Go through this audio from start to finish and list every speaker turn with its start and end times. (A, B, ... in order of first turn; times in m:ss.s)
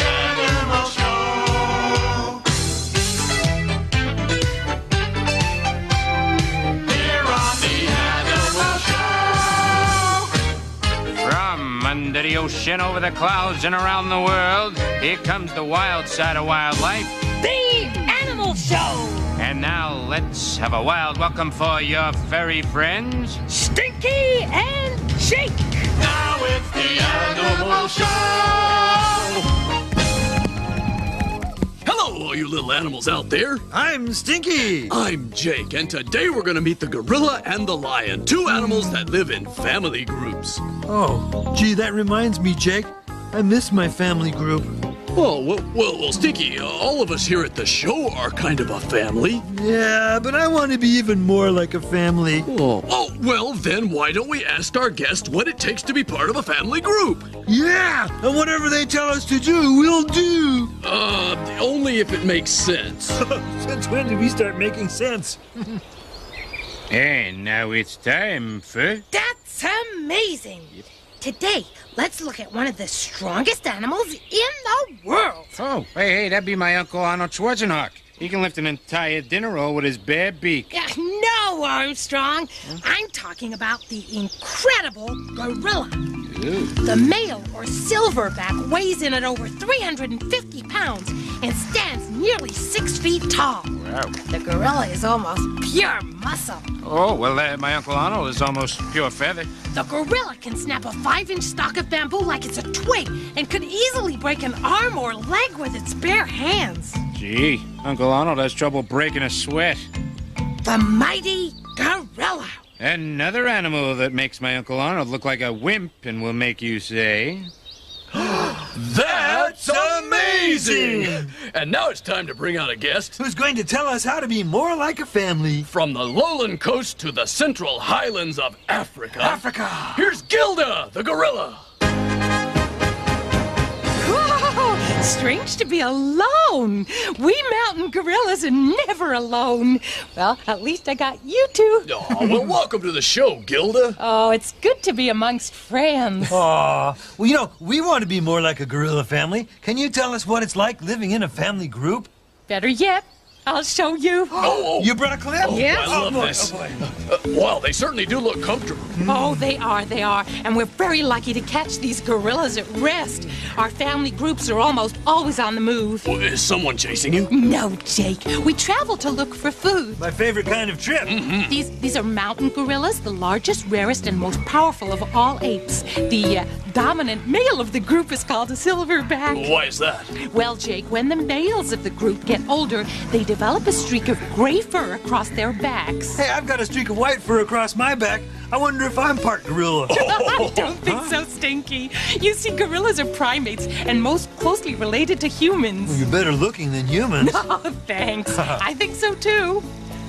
0:07.0-0:08.9 A
0:11.2-0:17.2 B
0:17.4-0:19.3 C
0:19.4-0:23.4 B
0:23.5-0:25.9 C
0:26.0-0:29.3 A
0:31.8-0:33.6 A
0:33.7-0:35.0 D
0:34.9-0:40.6 A
0:40.9-0:44.8 D
0:45.1-0:49.4 A
0:49.4-0:52.5 D
0:52.5-0:57.3 A
0:57.4-1:00.7 D
1:00.8-1:03.2 A
1:03.2-1:05.8 D
1:06.9-1:09.0 B
1:09.1-1:15.5 C
1:15.5-1:20.7 B
1:20.7-1:26.2 C
1:26.3-1:26.8 B
1:26.8-1:36.6 C
1:33.8-1:34.1 B
1:36.8-1:39.5 B
1:39.7-1:47.0 C
1:47.1-1:49.9 B
1:50.6-1:52.6 C
1:52.8-1:57.5 B
1:58.2-2:03.2 A
1:58.2-2:01.3 D
2:03.2-2:05.7 D
2:05.7-2:11.6 A
2:09.2-2:10.1 D
2:14.0-2:21.9 C
2:21.8-2:24.0 A
2:24.0-2:26.4 C
2:26.3-2:32.1 D
2:32.5-2:34.6 C
2:34.4-2:36.9 D
2:34.4-2:39.0 A
2:35.4-2:36.0 C
2:39.0-2:39.4 D
2:39.0-2:46.1 C
2:46.0-2:47.3 A
2:47.3-2:50.0 C
2:50.0-2:51.2 D
2:51.1-2:51.5 A
2:51.5-2:59.5 C
2:59.3-3:00.1 A
3:00.2-3:06.2 C
3:06.2-3:10.2 D
3:09.9-3:16.0 C
3:10.0-3:10.7 A
3:10.8-3:11.1 D
3:15.8-3:17.4 D
3:17.2-3:19.6 C
3:18.3-3:18.6 D